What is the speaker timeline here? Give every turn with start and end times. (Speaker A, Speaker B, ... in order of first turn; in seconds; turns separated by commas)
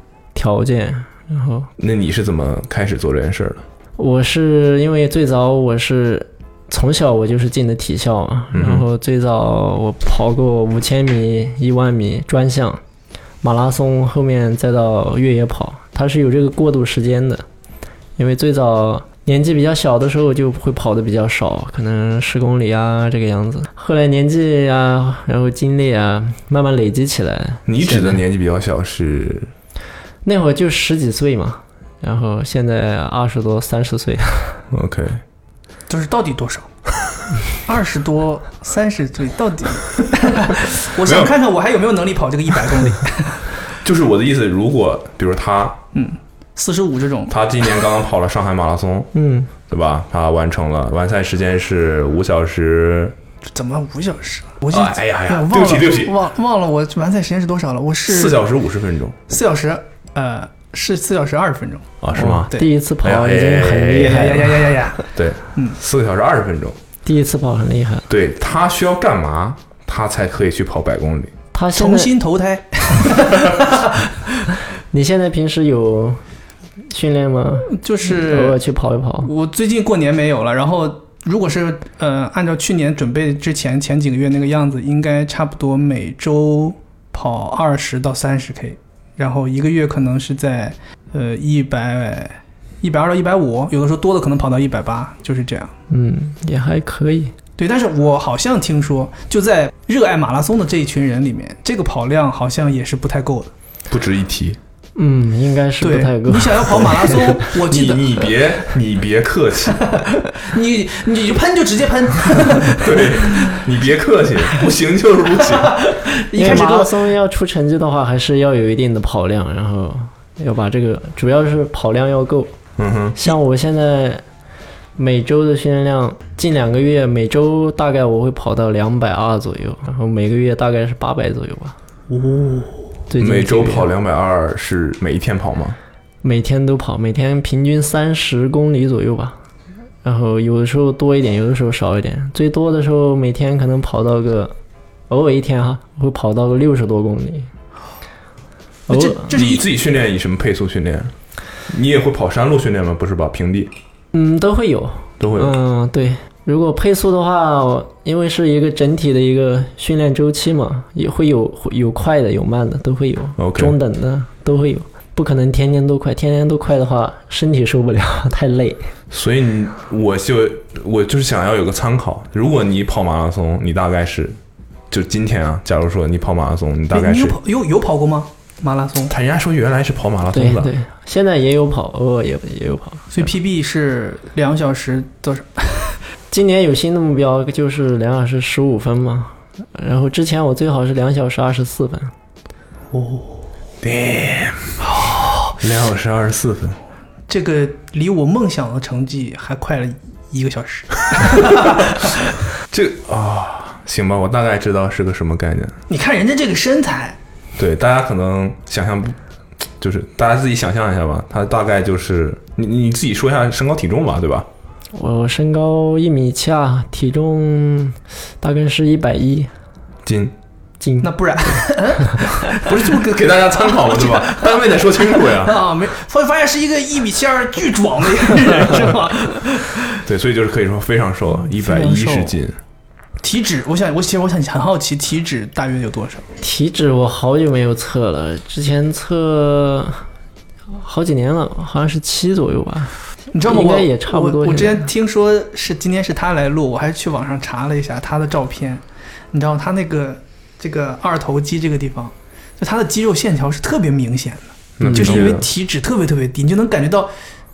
Speaker A: 0.3-1.7, Speaker B: 1.8-3.6, Speaker A: 4.0-12.8, Speaker B: 8.5-8.8, Speaker A: 13.4-17.4, Speaker A: 18.2-28.2, Speaker B: 27.7-29.5, Speaker A: 30.2-34.6, Speaker B: 34.7-35.2, Speaker C: 35.9-36.7, Speaker C: 37.6-43.5, Speaker B: 41.0-41.3, Speaker B: 43.8-45.8, Speaker C: 45.9-47.4, Speaker B: 47.3-49.1, Speaker A: 49.1-49.5, Speaker B: 49.7-53.2, Speaker C: 53.5-58.4, Speaker B: 54.7-56.1, Speaker B: 58.1-59.2, Speaker C: 59.3-62.7, Speaker B: 62.0-64.5, Speaker A: 62.2-64.8, Speaker C: 64.0-65.8, Speaker B: 65.2-66.8, Speaker A: 67.0-68.1, Speaker B: 68.1-71.3, Speaker A: 71.5-72.1, Speaker C: 71.8-74.1, Speaker A: 74.9-76.2, Speaker A: 76.8-79.3, Speaker C: 77.7-78.6, Speaker C: 79.2-95.7, Speaker A: 95.9-97.3, Speaker C: 97.6-103.5, Speaker B: 103.9-104.6, Speaker A: 105.0-107.5, Speaker C: 105.8-108.3, Speaker B: 107.5-109.8, Speaker C: 109.8-113.7, Speaker B: 112.7-115.8, Speaker C: 115.4-117.1, Speaker A: 116.3-122.5, Speaker B: 122.8-123.2, Speaker A: 123.2-124.2, Speaker A: 125.0-131.8, Speaker C: 132.1-132.9, Speaker A: 133.1-133.9, Speaker B: 133.2-135.8, Speaker A: 136.2-139.4, Speaker A: 140.0-144.5, Speaker A: 145.1-147.5, Speaker C: 148.9-149.7, Speaker A: 148.9-149.3, Speaker B: 149.3-151.1, Speaker B: 151.7-153.7, Speaker A: 154.1-168.9, Speaker B: 155.2-155.6, Speaker B: 163.4-163.8, Speaker B: 169.1-174.4, Speaker B: 174.9-177.4, Speaker C: 176.9-179.1, Speaker B: 179.1-180.7, Speaker A: 180.3-183.3, Speaker C: 183.1-186.0, Speaker A: 186.3-192.1, Speaker C: 192.9-193.4, Speaker B: 193.8-194.9, Speaker C: 194.8-195.6, Speaker B: 195.6-196.8, Speaker C: 197.3-202.2, Speaker B: 202.7-205.8, Speaker C: 205.9-207.2, Speaker B: 207.6-209.2, Speaker B: 209.8-214.5, Speaker A: 214.9-219.5, Speaker B: 220.1-220.3, Speaker A: 220.8-222.2, Speaker C: 221.0-230.0, Speaker B: 222.6-225.7, Speaker B: 230.0-232.6, Speaker C: 231.4-232.4, Speaker C: 233.2-236.3, Speaker A: 236.4-240.0, Speaker A: 240.7-242.9, Speaker C: 243.3-257.1, Speaker A: 243.5-244.9, Speaker B: 254.8-255.5, Speaker A: 254.8-255.3